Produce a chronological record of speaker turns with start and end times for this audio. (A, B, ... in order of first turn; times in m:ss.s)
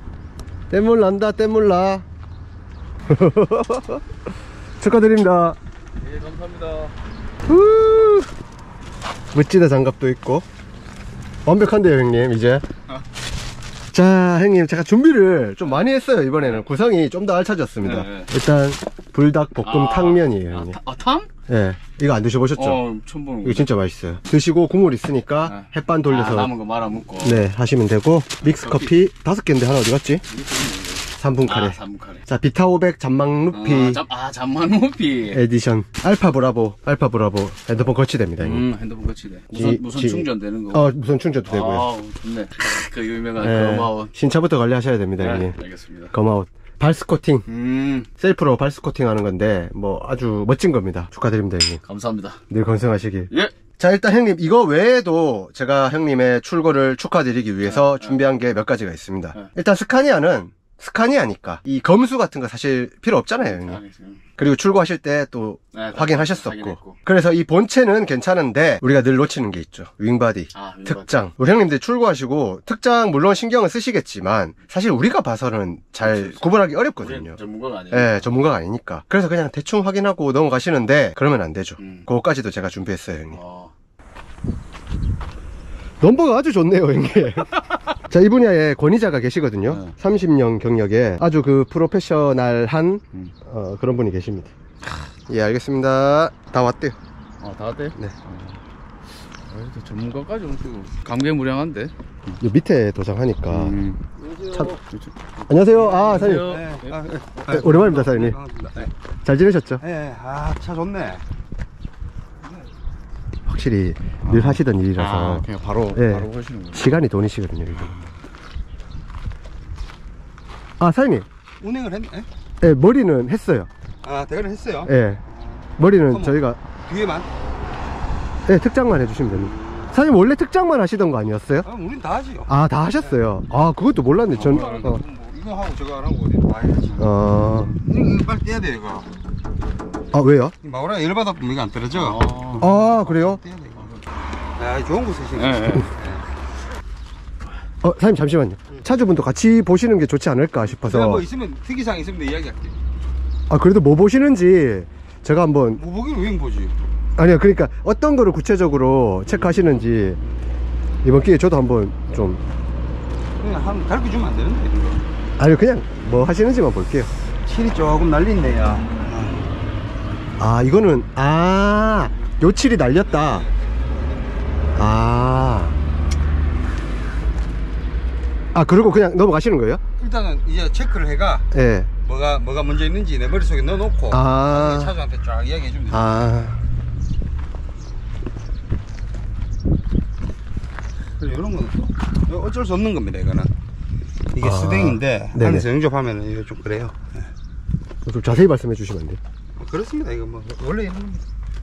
0:00.7-0:02.1 A
0:03.1-0:04.0 A
0:04.8-0:05.6 A
0:06.0-0:06.9 B
0:07.5-0:08.3 A
0:09.3-0:10.5 A
0:11.4-0:12.6 A
0:13.9-0:20.8 A
0:17.8-0:18.3 B
0:19.6-0:21.3 B
0:21.5-0:22.8 A
0:22.6-0:23.7 B
0:23.4-0:26.5 A
0:25.4-0:27.5 B
0:27.2-0:30.2 A
0:28.4-0:29.0 B
0:30.3-0:32.3 B
0:31.2-0:34.0 A
0:33.5-0:35.4 B
0:35.3-0:38.7 A
0:38.4-0:40.9 B
0:39.5-0:41.9 A
0:41.5-0:44.1 B
0:43.4-0:45.6 A
0:45.2-0:46.2 B
0:46.1-0:47.5 A
0:47.5-0:48.1 B
0:48.2-0:51.8 A
0:51.8-0:52.4 B
0:52.5-1:03.8 A
0:57.6-0:58.2 B
1:03.4-1:04.2 B
1:04.4-1:23.4 A
1:05.7-1:07.0 B
1:10.5-1:11.2 B
1:16.0-1:18.4 B
1:21.8-1:22.1 B
1:23.3-1:23.7 B
1:26.0-1:34.5 A
1:29.7-1:30.0 B
1:35.3-1:37.0 A
1:37.4-1:38.6 B
1:39.5-1:41.9 B
1:42.4-1:43.8 A
1:43.5-1:44.0 B
1:44.2-1:44.8 C
1:44.7-1:46.9 B
1:45.5-1:46.6 A
1:45.9-1:48.9 C
1:47.5-1:48.4 A
1:49.2-1:49.8 A
1:49.8-1:51.2 C
1:53.5-1:58.0 A
1:54.2-1:57.0 B
2:00.8-2:01.3 A
2:01.6-2:02.3 C
2:02.6-2:03.7 A
2:04.0-2:07.3 C
2:04.9-2:05.2 A
2:05.8-2:06.6 A
2:08.5-2:11.7 A
2:09.3-2:09.9 C
2:11.6-2:13.2 C
2:12.5-2:15.0 A
2:14.3-2:14.9 B
2:14.4-2:17.1 C
2:17.0-2:17.8 A
2:17.8-2:19.1 C
2:20.1-2:20.5 A
2:20.6-2:23.9 C
2:21.9-2:22.7 B
2:22.6-2:23.4 A
2:24.6-2:26.2 C
2:25.4-2:25.9 B
2:27.8-2:31.2 A
2:30.7-2:32.8 C
2:33.5-2:35.8 A
2:35.8-2:36.8 C
2:37.2-2:40.2 A
2:39.3-2:39.7 C
2:41.0-2:42.4 A
2:43.4-2:45.0 C
2:45.4-2:47.1 A
2:47.4-2:49.4 C
2:50.4-2:53.5 A
2:52.9-2:54.4 C
2:54.8-2:55.8 A
2:58.5-2:59.8 A
3:00.0-3:01.5 C
3:01.5-3:01.9 A
3:02.0-3:06.3 C
3:04.1-3:05.0 A
3:05.9-3:06.6 A
3:11.2-3:13.5 C
3:14.3-3:17.3 C
3:14.4-3:15.7 A
3:18.0-3:19.2 A
3:19.6-3:21.2 C